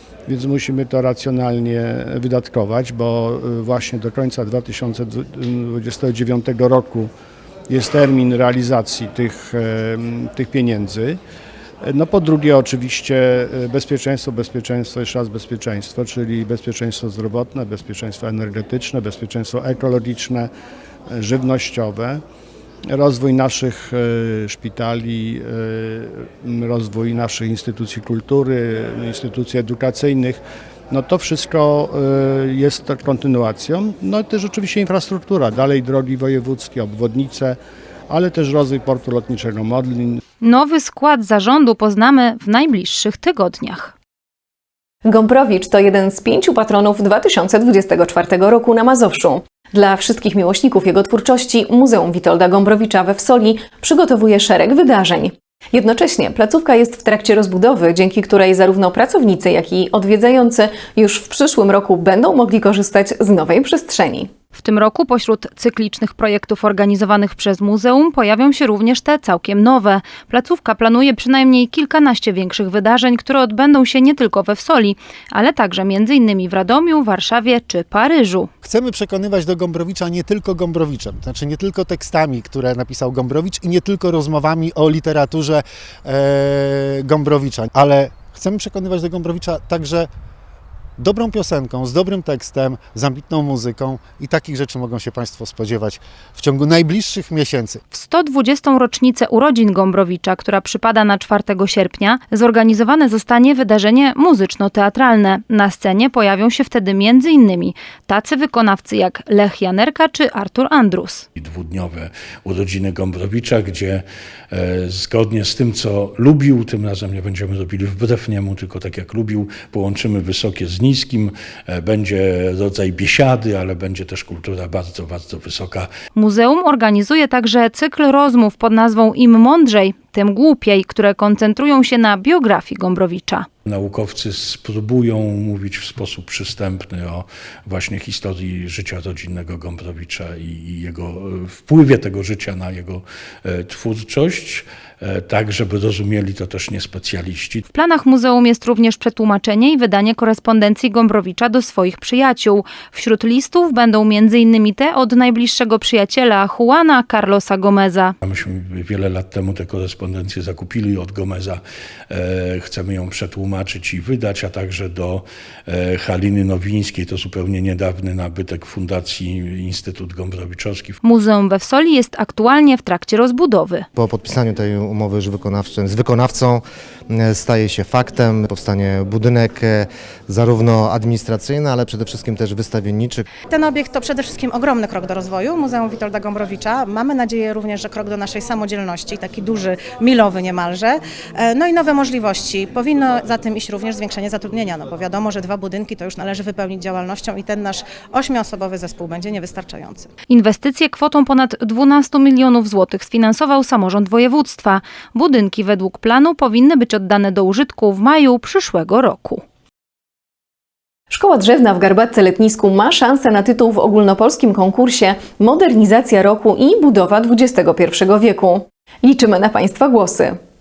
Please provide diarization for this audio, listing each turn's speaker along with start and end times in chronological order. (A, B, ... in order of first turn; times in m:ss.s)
0:00.3-0:07.1 A
0:07.7-0:11.2 A
0:11.8-0:20.5 A
0:21.1-0:22.2 A
0:22.9-0:37.6 A
0:38.1-0:40.2 A
0:40.4-0:43.9 B
0:45.0-1:04.3 C
1:04.5-1:18.5 B
1:18.6-1:30.1 D
1:31.0-1:37.8 D
1:37.9-1:51.2 B
1:51.4-2:05.9 E
2:06.1-2:13.5 B
2:13.6-2:27.6 E
2:27.7-2:38.1 B
2:38.2-2:51.0 E
2:51.0-2:53.9 B
2:54.0-3:03.3 F
3:03.5-3:20.1 G
3:20.3-3:29.4 B
3:31.1-3:40.4 C